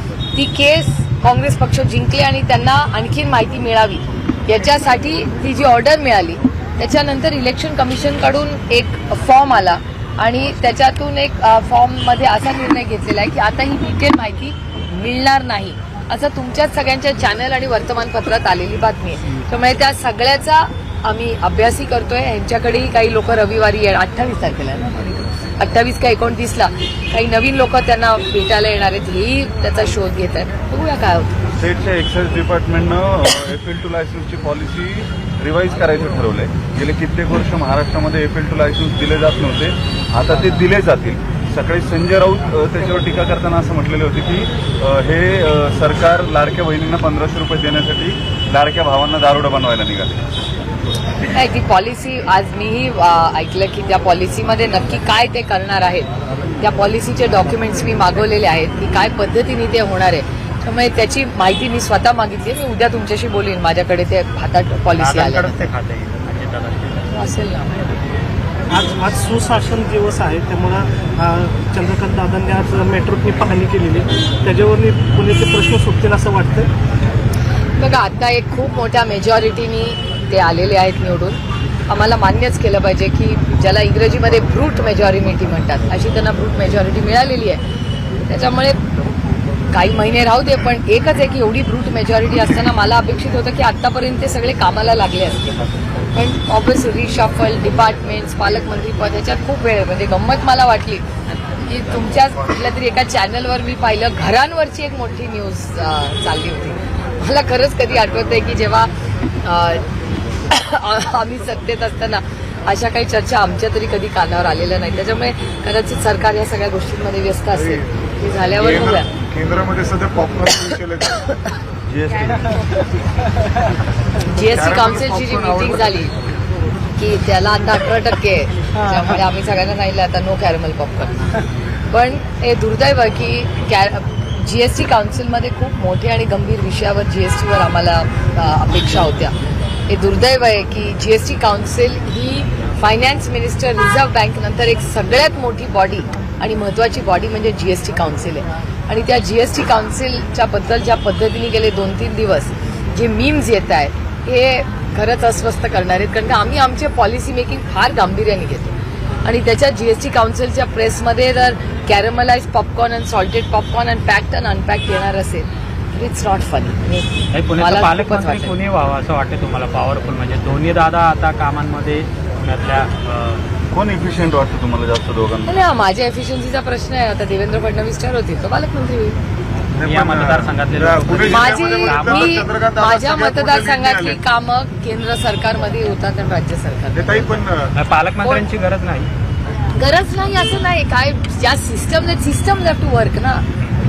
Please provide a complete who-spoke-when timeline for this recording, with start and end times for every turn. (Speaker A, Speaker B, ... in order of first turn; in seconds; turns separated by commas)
Speaker A: 0.3-31.4, Speaker B: 31.6-50.1, Speaker A: 51.3-56.1, Speaker A: 56.6-65.7, Speaker C: 65.0-67.1, Speaker A: 67.1-67.9, Speaker D: 68.7-76.7, Speaker A: 77.8-87.6, Speaker A: 88.2-88.8, Speaker A: 89.7-95.6, Speaker A: 96.1-108.9, Speaker A: 109.4-109.8, Speaker A: 110.5-119.1, Speaker E: 117.5-117.8, Speaker E: 118.5-121.3, Speaker B: 121.9-122.7, Speaker A: 124.3-126.1, Speaker E: 124.5-126.0, Speaker A: 127.0-131.2, Speaker A: 131.9-139.3, Speaker A: 139.9-168.5, Speaker C: 167.3-173.4, Speaker B: 173.7-175.6, Speaker A: 175.4-179.2, Speaker C: 179.8-182.3, Speaker E: 179.8-184.2, Speaker A: 181.3-187.3, Speaker E: 186.9-187.7, Speaker C: 187.8-189.1, Speaker A: 189.7-193.4